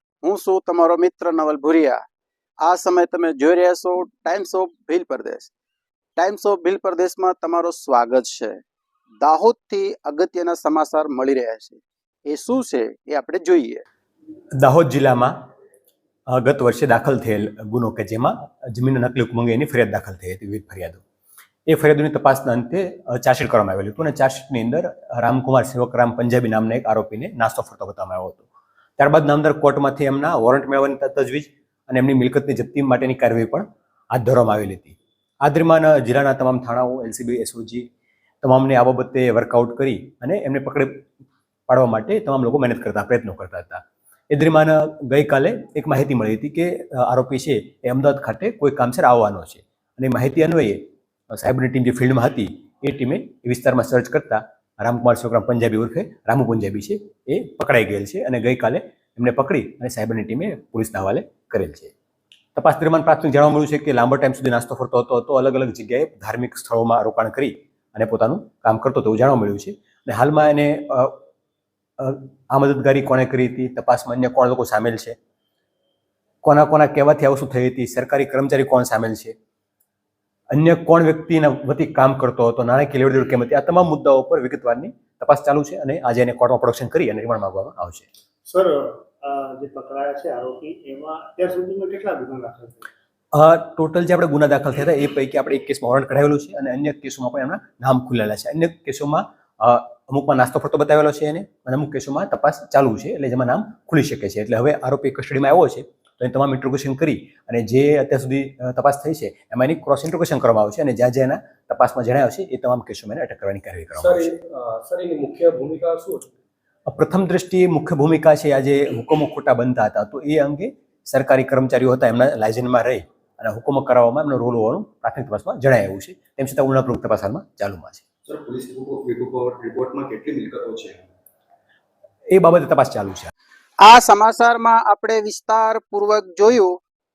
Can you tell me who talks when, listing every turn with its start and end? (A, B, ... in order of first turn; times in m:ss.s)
0:00.2-0:02.0 A
0:02.6-0:05.5 A
0:06.2-0:08.6 A
0:09.2-0:13.8 A
0:14.6-0:15.3 B
0:16.3-0:21.0 B
0:21.7-0:28.4 B
0:29.0-0:37.9 B
0:38.4-0:41.0 B
0:41.7-1:01.9 B
1:02.6-1:11.2 B
1:12.0-1:15.2 B
1:16.4-1:19.3 B
1:20.5-1:28.1 B
1:28.5-1:32.9 C
1:33.3-1:54.3 B
1:54.0-1:56.3 D
1:56.9-2:08.0 B
2:08.3-2:11.0 E
2:12.3-2:13.3 B
2:13.8-2:16.7 A